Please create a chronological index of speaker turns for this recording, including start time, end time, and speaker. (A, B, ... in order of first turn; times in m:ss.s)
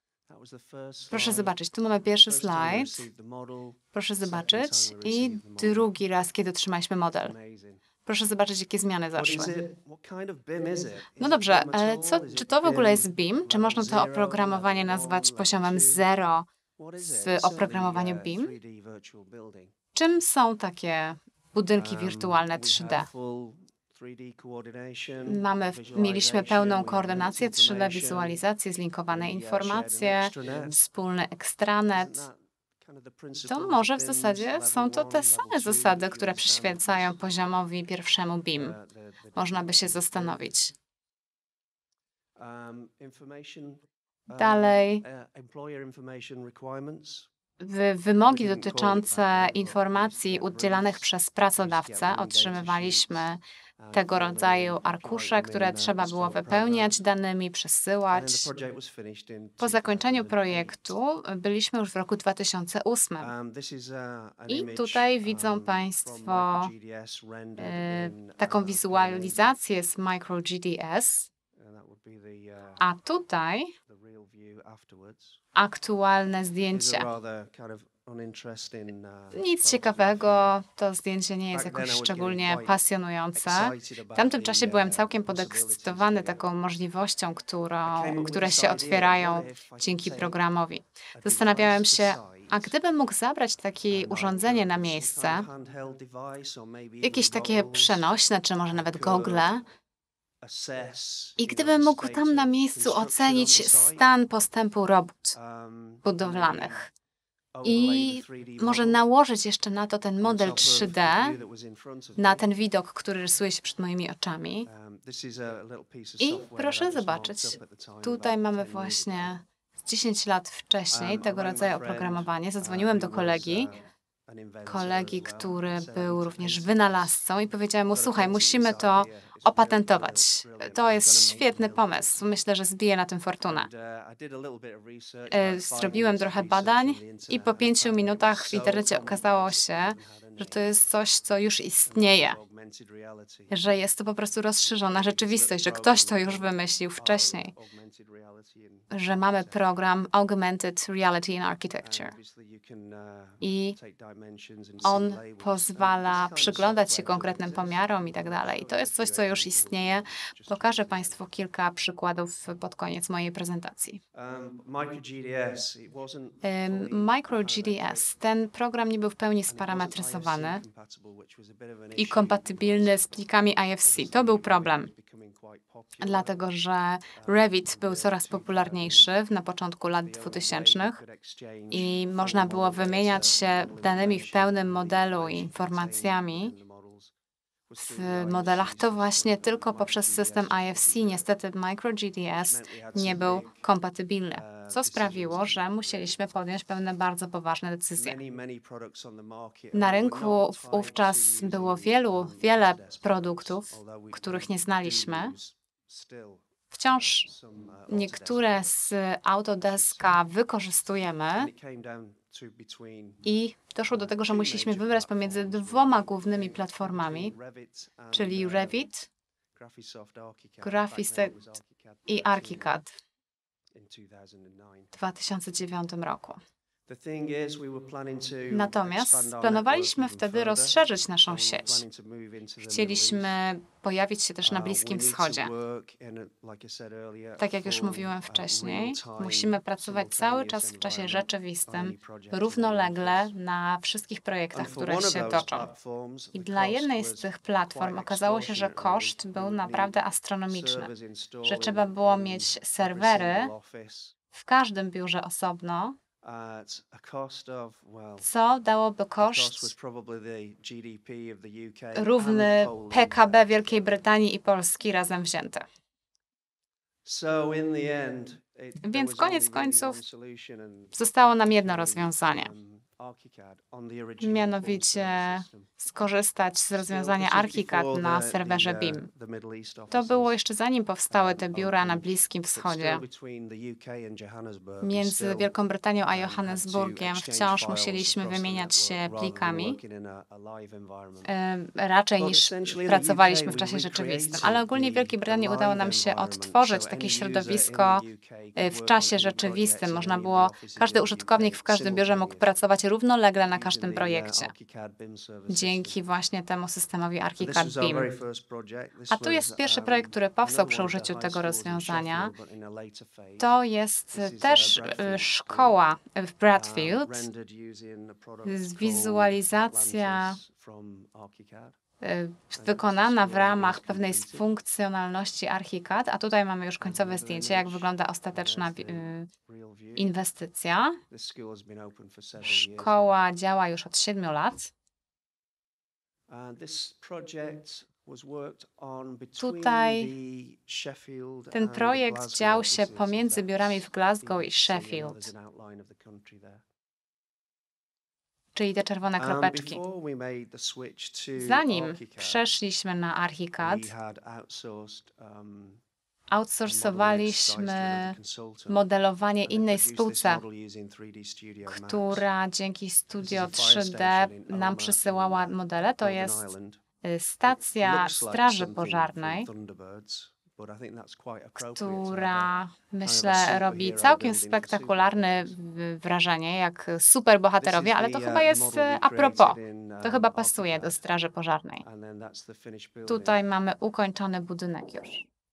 0:00.3-0:01.6 A
0:01.1-0:03.0 B
0:02.2-0:05.9 A
0:03.9-0:07.3 B
0:07.2-0:07.8 A
0:08.0-0:09.5 B
0:09.1-0:16.0 A
0:11.2-0:16.5 B
0:16.8-0:19.7 A
0:17.0-0:18.5 B
0:19.9-0:23.1 B
0:21.8-0:28.4 A
0:25.2-0:32.2 B
0:29.1-0:30.8 A
0:31.9-0:37.3 A
0:33.5-0:38.8 B
0:38.5-0:40.5 A
0:39.4-0:40.7 B
0:42.4-0:47.3 A
0:44.4-0:45.0 B
0:47.6-0:53.4 B
0:48.2-0:53.2 A
0:53.8-0:57.0 A
0:53.9-0:58.5 B
0:58.1-1:00.9 A
0:59.6-1:03.3 B
1:03.2-1:09.5 A
1:04.5-1:06.7 B
1:07.6-1:11.3 B
1:11.5-1:12.8 A
1:12.8-1:13.7 B
1:13.8-1:15.4 A
1:15.6-1:17.1 B
1:16.7-1:20.6 A
1:19.3-1:35.5 B
1:21.5-1:22.7 A
1:23.3-1:26.5 A
1:27.8-1:30.4 A
1:31.2-1:32.7 A
1:33.9-1:38.1 A
1:37.0-1:39.6 B
1:38.7-1:39.6 A
1:40.4-1:44.1 A
1:41.4-1:45.4 B
1:45.3-1:46.9 A
1:46.0-1:46.9 B
1:47.5-1:49.0 A
1:47.6-1:51.3 B
1:50.2-1:52.4 A
1:52.2-1:54.7 B
1:54.6-1:59.4 A
1:56.2-2:03.7 B
2:00.9-2:07.2 A
2:04.6-2:13.7 B
2:07.9-2:12.3 A
2:13.4-2:20.8 A
2:15.3-2:22.4 B
2:21.8-2:23.5 A
2:23.5-2:27.5 B
2:24.6-2:29.6 A
2:28.9-2:32.1 B
2:31.8-2:41.2 A
2:33.4-2:33.8 B
2:34.8-2:44.0 B
2:44.1-2:48.1 A
2:46.4-2:50.6 B
2:49.5-2:53.1 A
2:52.0-2:54.9 B
2:53.8-2:56.4 A
2:56.0-3:01.0 B
2:57.1-2:59.1 A
3:00.0-3:07.1 A
3:01.7-3:06.5 B
3:07.7-3:11.3 A
3:07.8-3:18.2 B
3:12.4-3:13.6 A
3:14.3-3:16.2 A
3:18.0-3:28.7 A
3:19.7-3:25.3 B
3:26.7-3:27.3 B
3:27.9-3:31.5 B
3:29.6-3:30.2 A
3:31.3-3:33.3 A
3:33.2-3:37.3 B
3:33.8-3:38.9 A
3:38.1-3:39.1 B
3:39.5-3:42.8 A
3:40.6-3:41.5 B
3:42.1-3:42.9 B
3:43.7-3:44.9 A
3:44.9-3:46.4 B
3:46.9-3:53.4 A
3:48.5-3:51.8 B
3:52.6-3:55.5 B
3:54.4-4:03.3 A
3:57.4-4:05.7 B
4:04.5-4:10.0 A
4:06.3-4:10.9 B
4:10.5-4:14.1 A
4:11.4-4:13.5 B
4:14.3-4:16.0 B
4:16.2-4:18.3 A
4:18.2-4:19.7 B
4:19.2-4:24.0 A
4:21.9-4:25.6 B
4:27.0-4:35.8 A
4:28.8-4:30.0 B
4:30.9-4:32.5 B
4:34.2-4:39.1 B
4:36.7-4:40.4 A
4:39.9-4:43.0 B
4:41.1-4:45.5 A
4:44.8-4:49.8 B
4:46.0-4:51.3 A
4:51.2-4:58.0 B
4:52.2-5:02.6 A
4:58.6-5:04.5 B
5:03.5-5:06.0 A
5:05.5-5:08.1 B
5:07.4-5:13.5 A
5:09.1-5:12.3 B
5:13.4-5:17.3 B
5:14.1-5:15.8 A
5:16.5-5:21.8 A
5:18.4-5:20.4 B
5:22.0-5:29.3 B
5:22.5-5:24.5 A
5:26.8-5:30.1 A
5:30.0-5:31.0 B
5:31.1-5:33.2 A
5:32.4-5:34.7 B
5:36.3-5:46.6 A
5:39.4-5:40.1 B
5:41.5-5:45.3 B
5:48.5-5:49.8 B
5:49.2-5:52.4 A
5:51.4-5:53.9 B
5:53.6-5:55.8 A
5:56.3-5:58.2 B
5:56.6-5:58.8 A
5:58.7-6:00.4 B
5:59.4-6:02.2 A
6:01.7-6:06.5 B
6:03.2-6:06.8 A
6:07.0-6:09.5 B
6:07.5-6:15.6 A
6:11.6-6:21.8 B
6:17.6-6:21.0 A
6:21.8-6:23.4 A
6:23.1-6:25.2 B